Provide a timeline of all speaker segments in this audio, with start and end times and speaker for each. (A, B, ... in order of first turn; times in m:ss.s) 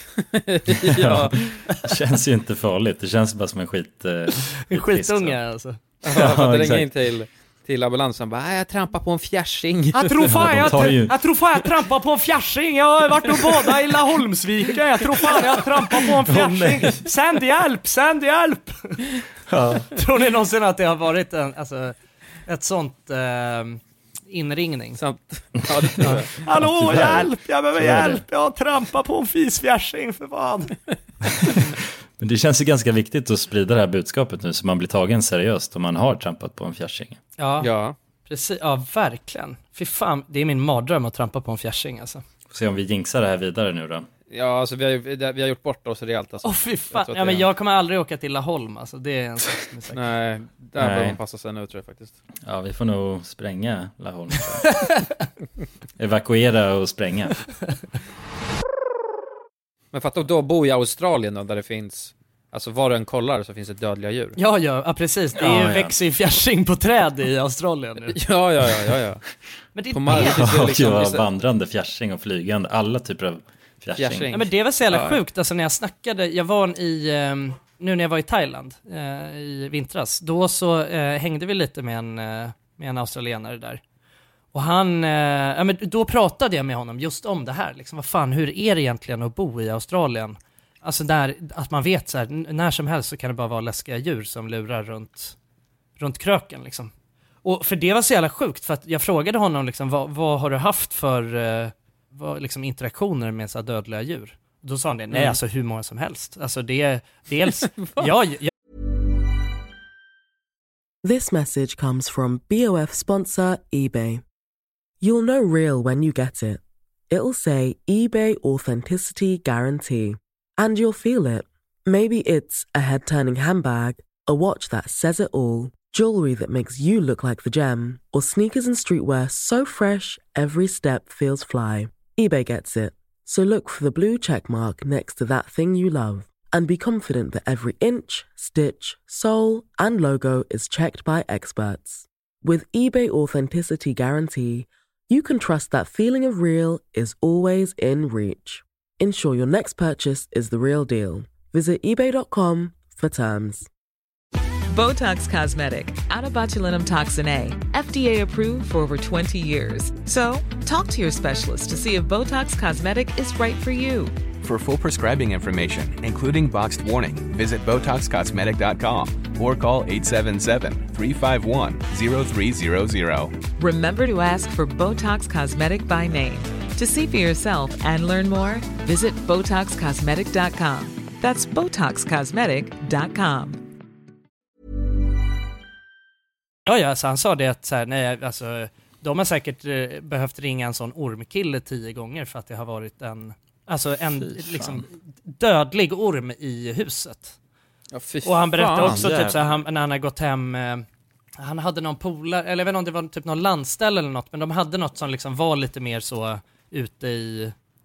0:00.2-0:01.6 A
0:00.7-0:05.4 B
0:04.7-0:05.8 C
0:06.0-0:10.7 A
0:06.1-0:06.9 B
0:09.9-0:19.2 C
0:10.2-0:11.2 B
0:16.3-0:17.0 B
0:19.5-0:19.9 B
0:19.9-0:21.9 C
0:22.4-0:25.0 C
0:25.0-0:26.4 A
0:26.0-0:30.7 C
0:26.0-0:28.2 B
0:31.3-0:37.2 B
0:37.4-0:37.7 C
0:37.6-0:38.0 A
0:38.2-0:42.2 C
0:42.5-0:44.1 B
0:44.3-0:47.5 A
0:46.4-0:50.1 C
0:49.9-0:52.1 A
0:50.8-0:51.2 B
0:52.4-0:55.0 B
0:54.7-0:55.0 C
0:56.0-0:57.5 B
0:59.9-1:04.4 A
1:04.4-1:08.2 C
1:05.4-1:05.9 B
1:08.1-1:09.2 A
1:09.7-1:10.4 C
1:09.9-1:11.2 A
1:10.1-1:14.3 B
1:14.0-1:15.2 A
1:14.3-1:23.8 C
1:24.5-1:35.3 C
1:36.0-1:36.9 C
1:37.4-1:48.5 C
1:45.1-1:45.4 A
1:47.7-1:48.1 A
1:51.0-1:54.2 D
1:55.0-2:33.7 D
2:34.7-2:44.2 E
2:44.4-2:53.4 F
2:53.6-3:03.6 E
3:06.6-3:17.4 C
3:14.2-3:14.8 B
3:17.9-3:19.0 A
3:18.2-3:20.8 C
3:18.8-3:19.5 B
3:21.4-3:27.5 C